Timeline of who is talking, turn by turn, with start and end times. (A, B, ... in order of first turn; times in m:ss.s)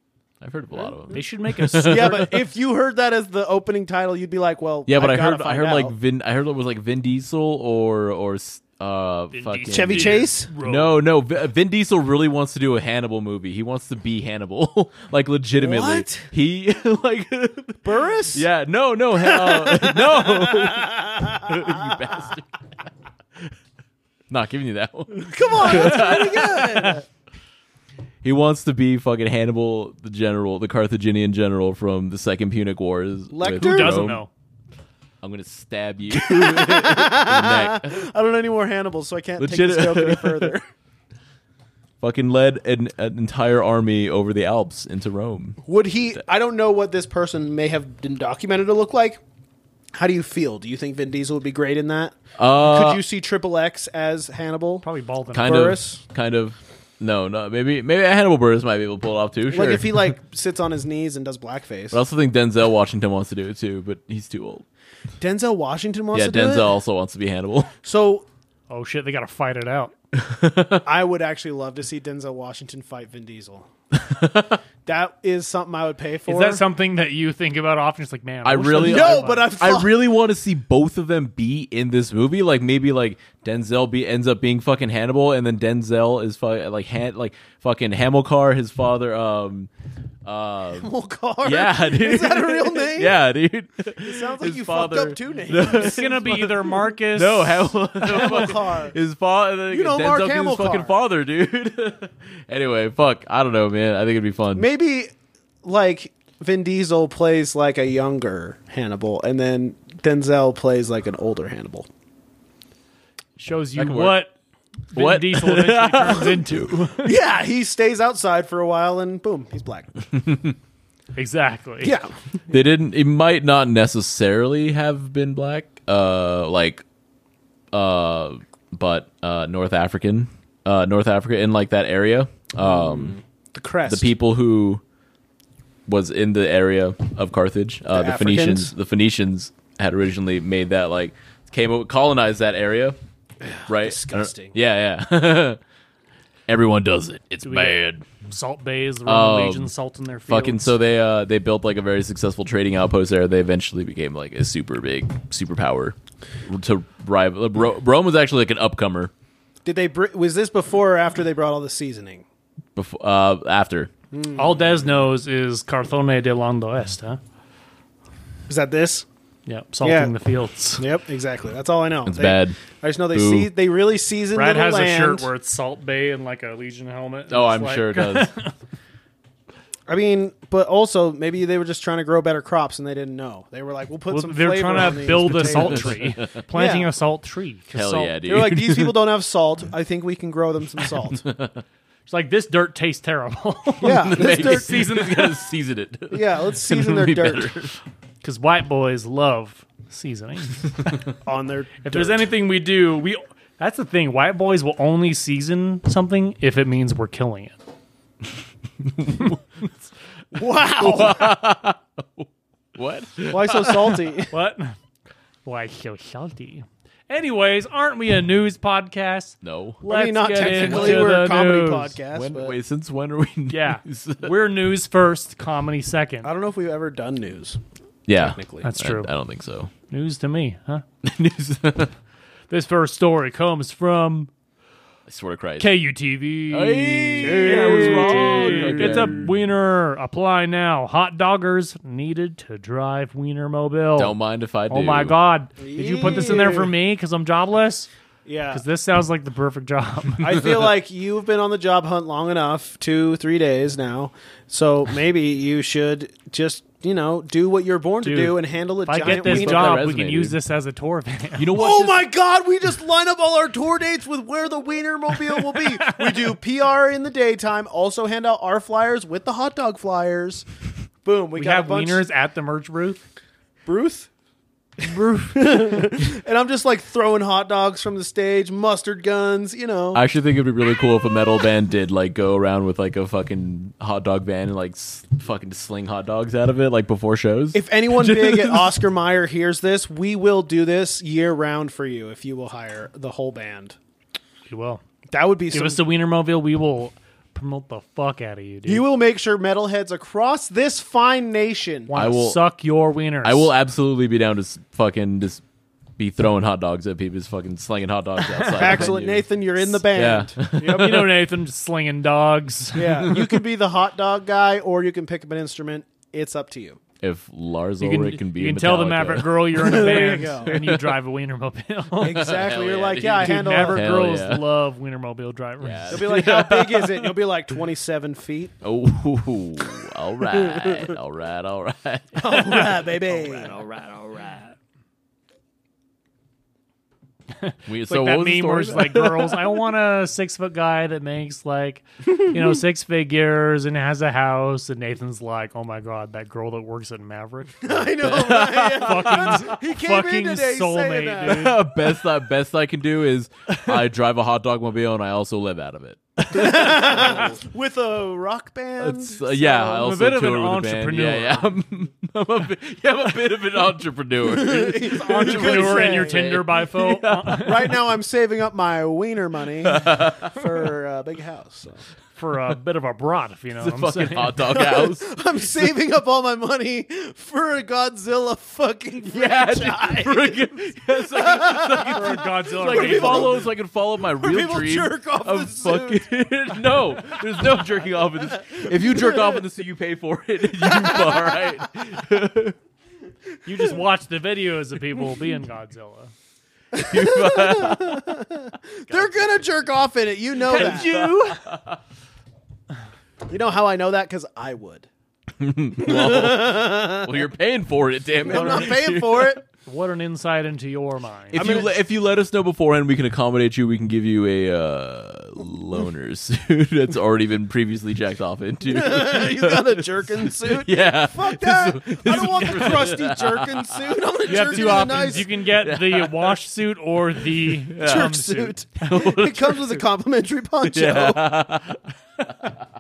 0:00.4-0:02.4 A
0:01.1-0:02.3 B
0:01.8-0:05.9 C
0:04.9-0:22.8 A
0:09.3-0:11.0 B
0:09.7-0:10.5 C
0:15.6-0:16.3 C
0:17.8-0:18.5 C
0:19.2-0:22.0 C
0:24.3-0:26.9 A
0:25.1-0:27.0 C
0:25.7-0:26.1 B
0:28.2-0:34.2 A
0:33.3-0:34.2 C
0:33.6-0:34.3 B
0:35.2-0:38.0 A
0:36.1-0:40.7 C
0:39.4-0:40.5 A
0:42.0-0:45.6 A
0:45.6-0:49.2 C
0:49.9-0:56.0 C
0:52.4-0:53.0 A
0:54.8-0:55.7 B
0:55.3-1:00.0 A
0:59.5-1:02.0 C
1:01.9-1:04.6 A
1:05.2-1:06.7 C
1:06.1-1:07.7 A
1:07.8-1:08.3 C
1:08.7-1:09.9 B
1:10.1-1:10.8 A
1:10.8-1:13.7 C
1:14.0-1:14.6 A
1:14.8-1:16.6 C
1:16.3-1:19.5 B
1:18.4-1:29.7 A
1:18.8-1:20.0 C
1:30.2-1:30.9 A
1:30.8-1:33.2 C
1:31.4-1:44.7 A
1:34.0-1:36.3 C
1:35.6-1:37.8 B
1:38.0-1:39.0 C
1:39.7-1:40.9 C
1:44.5-1:45.1 C
1:45.6-1:51.9 C
1:53.4-1:54.4 B
1:53.8-1:54.2 A
1:54.9-1:57.2 B
1:54.9-1:56.5 A
1:57.0-1:59.9 C
2:00.2-2:00.5 A
2:01.2-2:02.0 B
2:01.8-2:02.1 C
2:02.5-2:06.8 A
2:07.7-2:13.2 A
2:12.6-2:14.1 C
2:13.9-2:14.8 A
2:15.9-2:23.0 A
2:17.9-2:18.7 C
2:23.4-2:24.6 C
2:23.7-2:25.6 A
2:26.5-2:28.0 A
2:27.4-2:30.7 B
2:29.1-2:29.7 A
2:30.3-2:36.0 A
2:36.5-2:39.1 A
2:39.6-2:42.2 C
2:42.8-2:43.9 A
2:44.1-2:44.6 C
2:44.4-2:47.2 B
2:48.5-2:49.1 C
2:49.5-2:50.8 B
2:49.8-2:50.1 C
2:50.8-2:55.3 C
2:52.1-2:52.6 A
2:53.1-2:53.5 A
2:54.3-2:58.5 B
2:57.3-2:58.3 A
2:59.9-3:06.9 C
3:04.1-3:08.2 B
3:05.2-3:06.4 A
3:07.7-3:09.0 A
3:08.2-3:11.2 C
3:11.0-3:11.6 A
3:12.1-3:15.3 B
3:13.8-3:14.9 C
3:13.8-3:17.8 A
3:16.1-3:17.5 C
3:18.2-3:21.0 B
3:21.2-3:22.2 C
3:21.8-3:27.6 B
3:29.0-3:29.4 A
3:30.3-3:31.4 C
3:30.8-3:34.2 A
3:33.3-3:34.3 C
3:34.3-3:34.8 B
3:35.4-3:42.0 B
3:39.4-3:41.2 A
3:39.8-3:42.6 C
3:42.1-3:44.4 A
3:43.5-3:46.3 B
3:46.2-3:47.6 C
3:48.1-3:49.7 A
3:48.2-3:48.7 C
3:48.6-3:49.1 B
3:49.9-3:50.8 B
3:51.0-3:51.9 A
3:52.5-3:54.3 B
3:55.1-3:55.8 A
3:55.6-4:04.2 B
3:56.5-3:59.3 A
3:57.2-3:59.3 C
4:04.0-4:05.2 A
4:04.7-4:07.9 B
4:05.6-4:06.7 C
4:08.2-4:08.6 C
4:08.5-4:10.4 B
4:10.2-4:19.8 C
4:18.0-4:21.5 B
4:19.0-4:20.4 A
4:21.4-4:22.1 A
4:21.5-4:30.5 C
4:31.0-4:32.0 C
4:31.4-4:33.0 B
4:33.7-4:34.1 C
4:34.8-4:40.0 C
4:40.0-4:48.7 A
4:47.5-4:53.8 C
4:54.5-4:54.8 B
4:55.1-4:55.8 C
4:55.5-4:58.9 B
4:58.7-5:01.9 C
5:01.9-5:03.5 B
5:02.0-5:02.4 A
5:03.2-5:05.4 A
5:06.0-5:11.1 A
5:08.2-5:08.9 B
5:08.6-5:11.1 C
5:10.6-5:13.1 B
5:12.7-5:16.8 C
5:17.0-5:20.8 A
5:17.8-5:22.3 B
5:19.6-5:20.5 C
5:22.0-5:23.8 C
5:22.0-5:24.5 A
5:23.2-5:26.1 B
5:25.6-5:27.1 A
5:25.9-5:28.5 C
5:28.6-5:32.8 A
5:30.3-5:31.0 C
5:32.2-5:33.6 C
5:32.2-5:34.6 B
5:37.4-5:47.9 B
5:37.7-5:39.6 A
5:47.6-5:51.6 C
5:48.0-5:49.5 A
5:48.8-5:51.6 B
5:51.2-5:57.2 A
5:56.3-5:59.8 C
5:58.8-6:07.6 A
5:59.5-6:01.5 B
6:04.2-6:06.2 C
6:04.9-6:07.7 B
6:07.4-6:11.8 C
6:09.6-6:10.4 A
6:12.2-6:14.5 B
6:13.6-6:15.1 A
6:14.5-6:23.5 C
6:19.1-6:32.6 A
6:21.9-6:23.4 B
6:24.1-6:26.1 C
6:27.2-6:27.4 C
6:28.3-6:29.5 C
6:30.5-6:31.7 C
6:33.4-6:36.1 B
6:36.7-6:41.0 C
6:36.8-6:38.2 A
6:38.9-6:39.4 A
6:40.5-6:41.4 B
6:40.5-6:41.8 A
6:43.3-6:44.9 C
6:45.4-6:49.4 A
6:45.8-6:47.2 C
6:48.2-6:49.4 C
6:48.3-6:48.7 B
6:49.6-6:51.5 B
6:51.3-7:06.4 A
6:51.3-6:51.8 C
6:58.7-7:05.3 C
7:02.1-7:02.7 B
7:04.3-7:09.1 B
7:07.4-7:08.1 A
7:07.8-7:11.4 C
7:08.8-7:09.8 A
7:10.6-7:12.6 A